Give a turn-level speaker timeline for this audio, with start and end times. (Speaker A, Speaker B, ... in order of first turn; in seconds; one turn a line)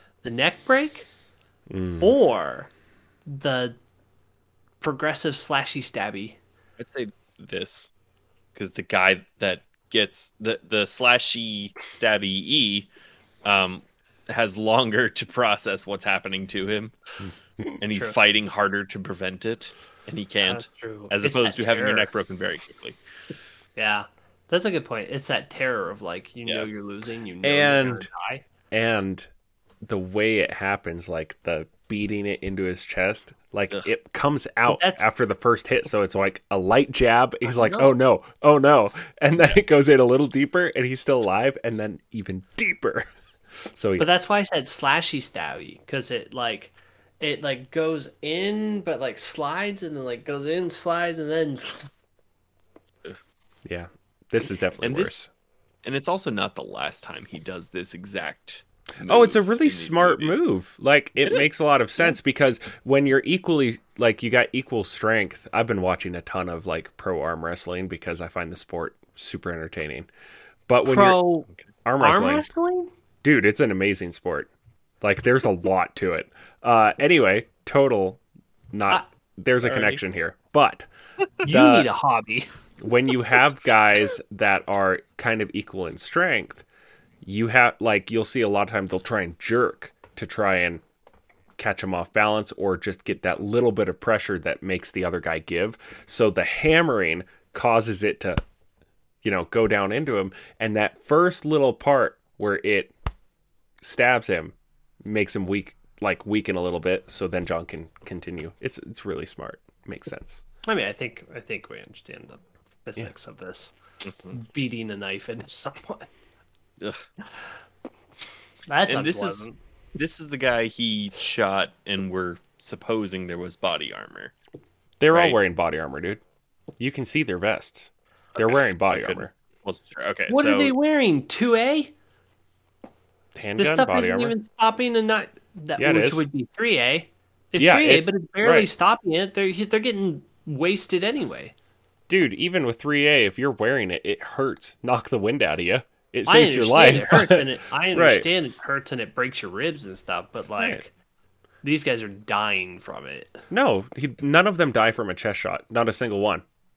Speaker A: 0.2-1.1
Speaker B: 1.7-2.1
Speaker A: 2.0-2.7
Speaker A: 3.2-3.8
Speaker A: 4.8-6.4
Speaker C: 6.8-7.9
Speaker C: 8.5-12.9
Speaker C: 13.4-16.9
Speaker C: 17.8-23.0
Speaker A: 20.4-22.1
Speaker A: 23.8-28.4
Speaker B: 27.4-28.1
Speaker B: 28.7-29.3
Speaker B: 29.8-43.0
Speaker A: 34.7-35.0
Speaker A: 37.4-38.0
Speaker B: 43.7-44.1
Speaker A: 44.0-51.9
Speaker B: 53.6-55.3
Speaker C: 54.8-55.3
Speaker C: 55.8-60.5
Speaker B: 59.0-70.1
Speaker C: 61.2-62.0
Speaker B: 70.7-71.2
Speaker A: 70.8-71.5
Speaker B: 71.8-72.5
Speaker A: 72.0-72.9
Speaker B: 73.2-74.5
Speaker B: 75.0-78.2
Speaker B: 78.7-80.9
Speaker C: 79.6-80.0
Speaker A: 81.4-82.5
Speaker B: 81.5-81.9
Speaker B: 82.8-86.6
Speaker B: 87.2-90.8
Speaker B: 91.6-98.4
Speaker B: 99.2-102.9
Speaker B: 103.8-110.4
Speaker A: 110.7-113.7
Speaker C: 114.0-114.4
Speaker A: 114.3-116.1
Speaker A: 118.7-119.6
Speaker C: 118.9-124.3
Speaker B: 125.0-126.2
Speaker C: 125.1-125.4
Speaker B: 126.8-129.3
Speaker C: 128.4-130.8
Speaker A: 130.3-131.9
Speaker B: 133.3-134.4
Speaker A: 133.6-141.5
Speaker B: 135.8-136.3
Speaker B: 137.6-138.7
Speaker B: 142.1-148.3
Speaker A: 146.2-150.9
Speaker A: 151.6-153.4
Speaker B: 153.5-156.4